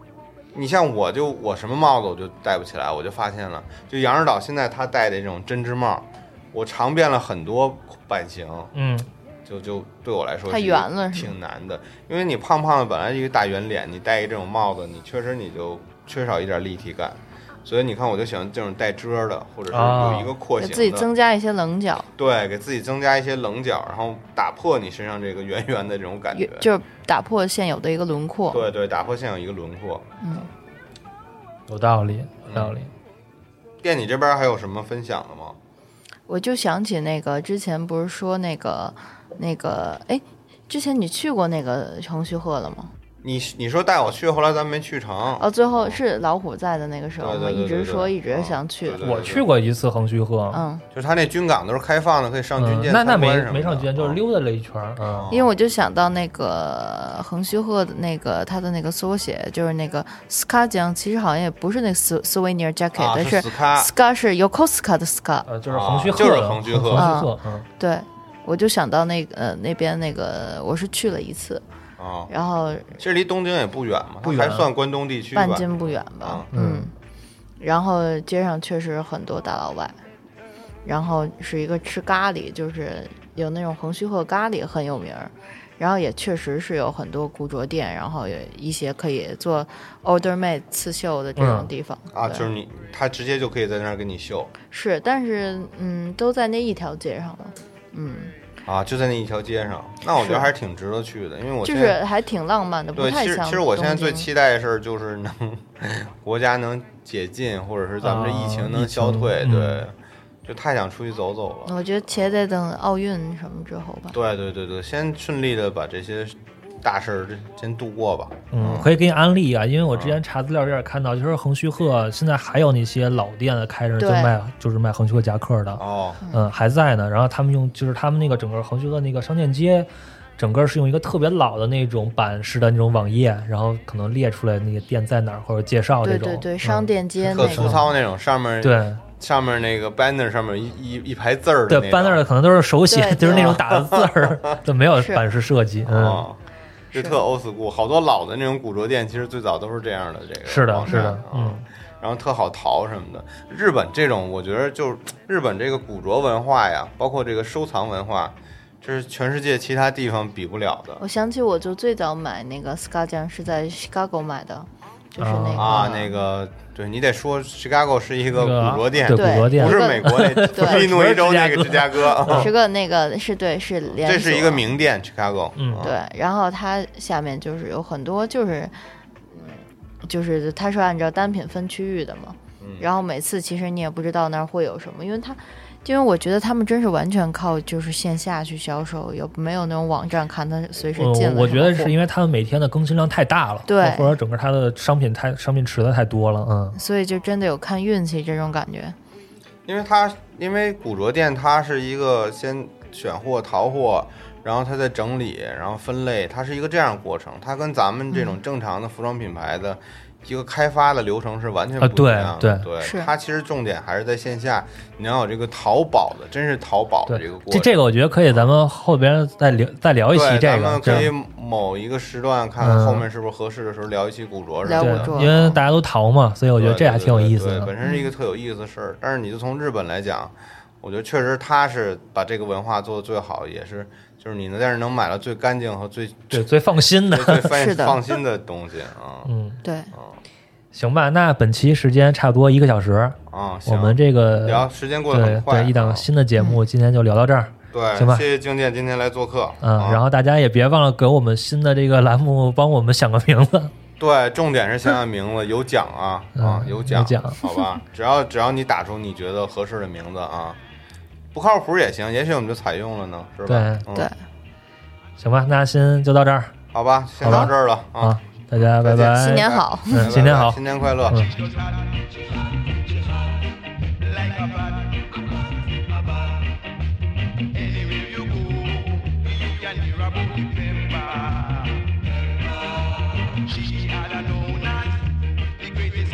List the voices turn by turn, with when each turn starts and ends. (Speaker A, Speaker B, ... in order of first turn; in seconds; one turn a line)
Speaker A: 0.5-8.7
Speaker B: 8.8-9.1
Speaker A: 9.5-21.1
Speaker C: 10.5-11.3
Speaker B: 19.7-20.3
Speaker C: 20.6-22.1
Speaker A: 22.2-26.7
Speaker C: 26.3-28.6
Speaker A: 28.5-30.1
Speaker C: 30.2-30.5
Speaker B: 31.7-32.9
Speaker A: 32.5-32.8
Speaker A: 33.8-35.6
Speaker C: 36.3-42.9
Speaker A: 43.2-46.0
Speaker C: 45.4-49.0
Speaker A: 47.2-49.5
Speaker B: 49.0-50.6
Speaker C: 50.5-50.8
Speaker A: 50.9-54.2
Speaker B: 52.6-55.3
Speaker A: 55.0-55.5
Speaker C: 55.3-65.5
Speaker A: 63.0-63.9
Speaker B: 65.5-67.7
Speaker A: 65.7-67.1
Speaker C: 67.0-71.6
Speaker A: 72.0-72.3
Speaker C: 72.3-73.0
Speaker A: 73.0-76.5
Speaker B: 74.2-74.7
Speaker C: 75.3-76.9
Speaker B: 76.5-76.9
Speaker C: 77.6-80.0
Speaker C: 80.8-92.5
Speaker B: 91.4-91.7
Speaker A: 92.1-94.5
Speaker C: 94.7-98.3
Speaker A: 98.7-102.0
Speaker C: 100.2-100.5
Speaker C: 101.6-104.3
Speaker A: 103.0-112.1
Speaker B: 108.0-109.8
Speaker C: 111.7-114.2
Speaker A: 114.1-118.9
Speaker B: 118.5-125.8
Speaker A: 119.9-120.2
Speaker C: 124.0-124.3
Speaker A: 125.8-126.2
Speaker C: 126.2-126.5
Speaker B: 126.3-137.8
Speaker C: 136.0-137.8
Speaker A: 137.3-142.2
Speaker B: 138.6-139.0
Speaker B: 141.7-146.2
Speaker C: 142.9-143.6
Speaker A: 143.3-144.6
Speaker C: 144.9-145.2
Speaker A: 145.8-146.4
Speaker C: 146.9-147.2
Speaker A: 146.9-161.0
Speaker B: 150.5-151.7
Speaker C: 150.9-151.1
Speaker C: 161.0-166.2
Speaker B: 165.2-165.8
Speaker A: 165.6-172.5
Speaker B: 168.3-172.5
Speaker C: 169.1-170.8
Speaker C: 172.2-174.6
Speaker A: 174.0-175.9
Speaker B: 175.6-175.9
Speaker C: 175.8-178.7
Speaker C: 179.3-191.9
Speaker A: 182.6-182.9
Speaker B: 191.0-196.8
Speaker C: 193.7-194.2
Speaker C: 196.8-199.0
Speaker A: 199.7-217.8
Speaker B: 211.8-212.7
Speaker C: 212.8-213.1
Speaker B: 217.1-221.1
Speaker A: 220.1-225.6
Speaker B: 222.6-223.1
Speaker C: 224.6-225.6
Speaker B: 224.8-227.7
Speaker A: 226.6-236.5
Speaker C: 227.8-228.1
Speaker B: 236.3-237.6
Speaker A: 237.1-239.3
Speaker C: 237.5-238.0
Speaker B: 239.2-239.6
Speaker C: 239.6-239.9
Speaker B: 240.7-248.2
Speaker A: 243.3-246.1
Speaker A: 247.7-250.0
Speaker B: 249.6-253.7
Speaker A: 254.0-260.6
Speaker B: 256.4-257.4
Speaker A: 261.3-264.1
Speaker B: 263.5-263.9
Speaker B: 265.2-266.5
Speaker A: 266.7-271.9
Speaker B: 267.2-271.4
Speaker C: 269.0-270.1
Speaker A: 274.0-274.9
Speaker A: 277.6-278.8
Speaker A: 280.4-281.3
Speaker A: 283.8-284.7